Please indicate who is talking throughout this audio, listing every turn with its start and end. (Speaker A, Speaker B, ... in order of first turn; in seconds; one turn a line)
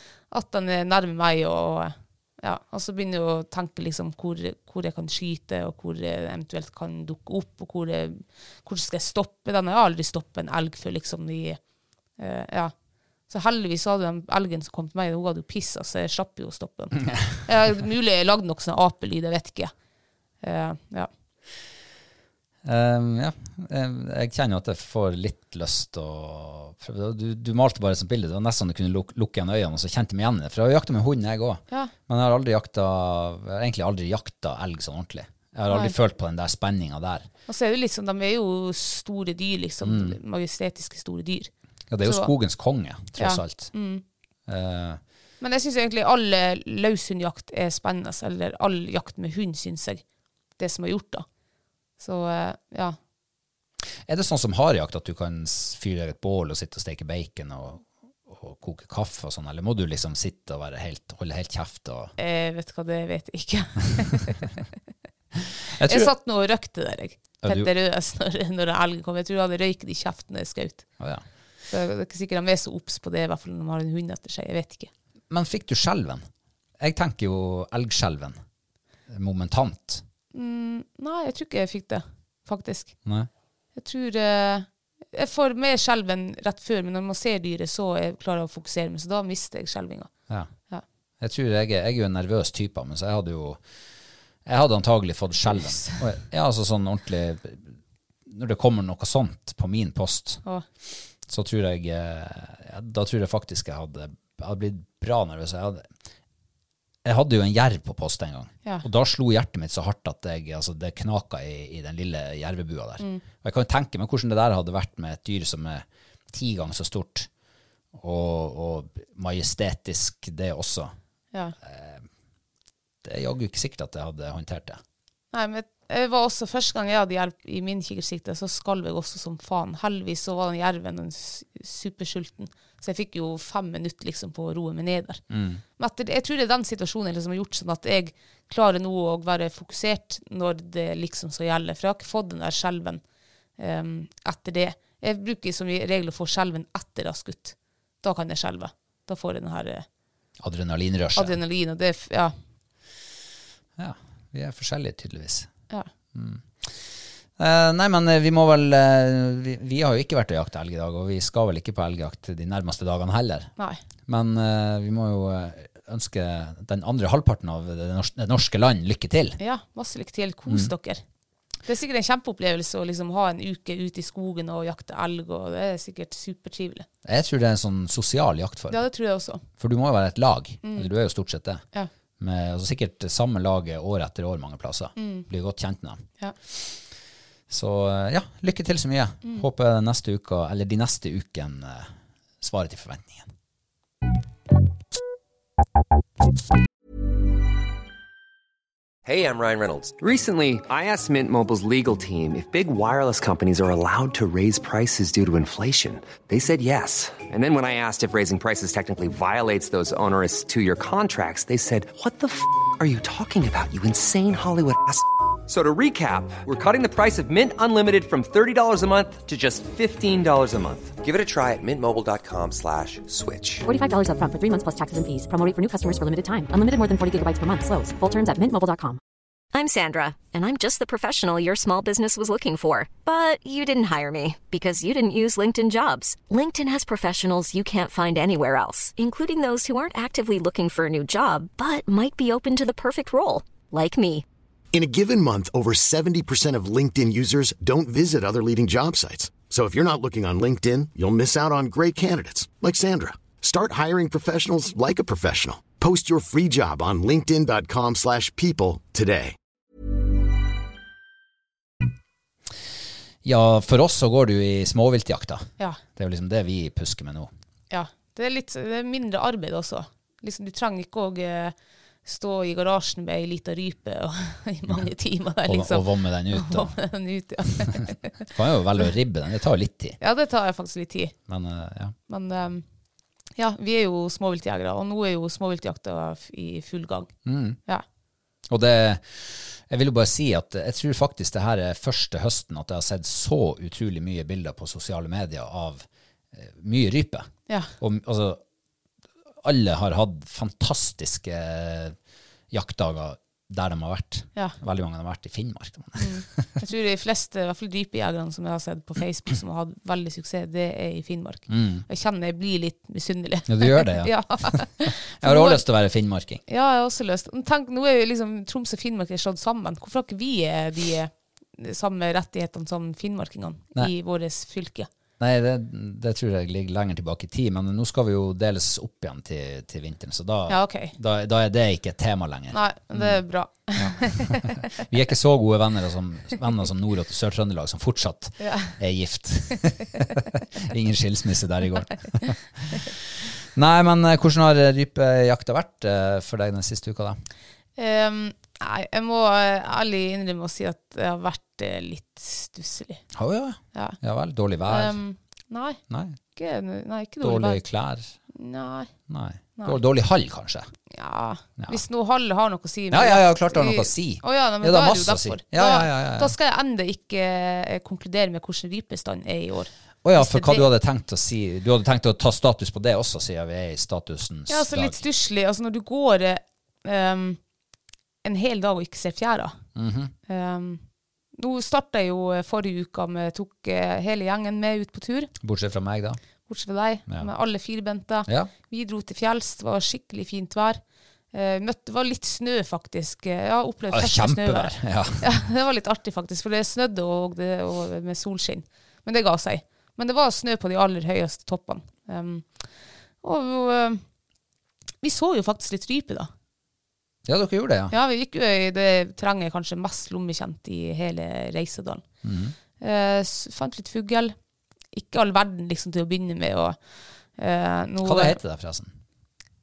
Speaker A: 0.3-11.6
Speaker A: 12.2-12.7
Speaker A: 13.3-19.7
Speaker A: 20.4-21.1
Speaker B: 22.6-37.3
Speaker A: 35.7-35.9
Speaker A: 37.5-41.5
Speaker B: 39.8-40.2
Speaker B: 41.9-43.7
Speaker A: 42.0-42.3
Speaker A: 43.2-44.0
Speaker B: 44.5-45.0
Speaker A: 45.4-50.0
Speaker A: 50.6-51.2
Speaker A: 52.0-53.0
Speaker B: 54.1-62.1
Speaker A: 62.2-64.5
Speaker B: 65.7-66.1
Speaker A: 65.8-70.8
Speaker B: 67.4-67.7
Speaker A: 71.7-74.9
Speaker B: 75.3-76.2
Speaker B: 76.8-78.4
Speaker B: 79.1-80.0
Speaker A: 80.3-82.9
Speaker A: 83.8-90.1
Speaker B: 91.2-93.6
Speaker B: 94.4-97.7
Speaker A: 95.6-96.0
Speaker B: 98.2-100.4
Speaker B: 101.3-105.9
Speaker B: 107.0-117.3
Speaker B: 117.9-120.9
Speaker B: 121.6-122.0
Speaker B: 123.0-124.8
Speaker A: 125.3-135.2
Speaker B: 135.3-135.6
Speaker A: 135.8-143.0
Speaker A: 143.6-149.8
Speaker B: 150.4-151.4
Speaker A: 151.1-152.3
Speaker B: 153.8-155.5
Speaker B: 156.1-163.5
Speaker B: 164.1-169.4
Speaker A: 169.4-171.0
Speaker A: 171.7-176.8
Speaker B: 177.0-178.8
Speaker A: 178.7-179.4
Speaker B: 179.6-181.6
Speaker A: 180.6-180.9
Speaker B: 182.2-186.7
Speaker A: 185.0-185.3
Speaker B: 187.5-193.3
Speaker C: 199.0-223.7
Speaker D: 223.6-229.0
Speaker E: 229.5-244.2
Speaker F: 244.7-259.3
Speaker B: 263.2-267.3
Speaker A: 267.7-271.5
Speaker A: 272.0-278.2
Speaker B: 275.4-276.7
Speaker B: 278.3-280.0
Speaker A: 280.0-281.1
Speaker B: 281.3-281.9
Speaker A: 282.1-282.6
Speaker A: 283.4-287.1
Speaker B: 287.2-287.6
Speaker B: 288.5-297.3
Speaker B: 297.8-298.4
Speaker B: 299.4-301.9
Speaker B: 302.5-306.6
Speaker A: 306.0-315.6
Speaker B: 311.5-311.8
Speaker B: 313.5-316.4
Speaker A: 316.5-324.9
Speaker B: 325.2-333.2
Speaker A: 330.5-330.9
Speaker A: 332.5-334.7
Speaker B: 333.8-347.2
Speaker A: 338.4-338.8
Speaker A: 347.8-353.0
Speaker B: 353.1-355.0
Speaker A: 354.7-355.8
Speaker B: 355.9-356.2
Speaker A: 356.4-357.6
Speaker B: 357.2-358.1
Speaker A: 358.3-358.9
Speaker B: 359.1-360.7
Speaker A: 360.9-370.7
Speaker B: 362.9-366.3
Speaker B: 370.0-375.0
Speaker A: 374.5-377.4
Speaker A: 378.2-379.6
Speaker B: 379.7-380.1
Speaker A: 380.3-380.8
Speaker A: 381.4-385.3
Speaker B: 385.4-386.2
Speaker A: 386.5-390.8
Speaker A: 391.3-402.5
Speaker B: 393.9-395.2
Speaker A: 403.2-404.0
Speaker A: 405.0-406.3
Speaker B: 407.2-407.9
Speaker A: 407.9-412.0
Speaker B: 412.2-412.6
Speaker A: 412.8-414.3
Speaker A: 414.9-416.8
Speaker A: 417.4-418.4
Speaker B: 418.0-418.9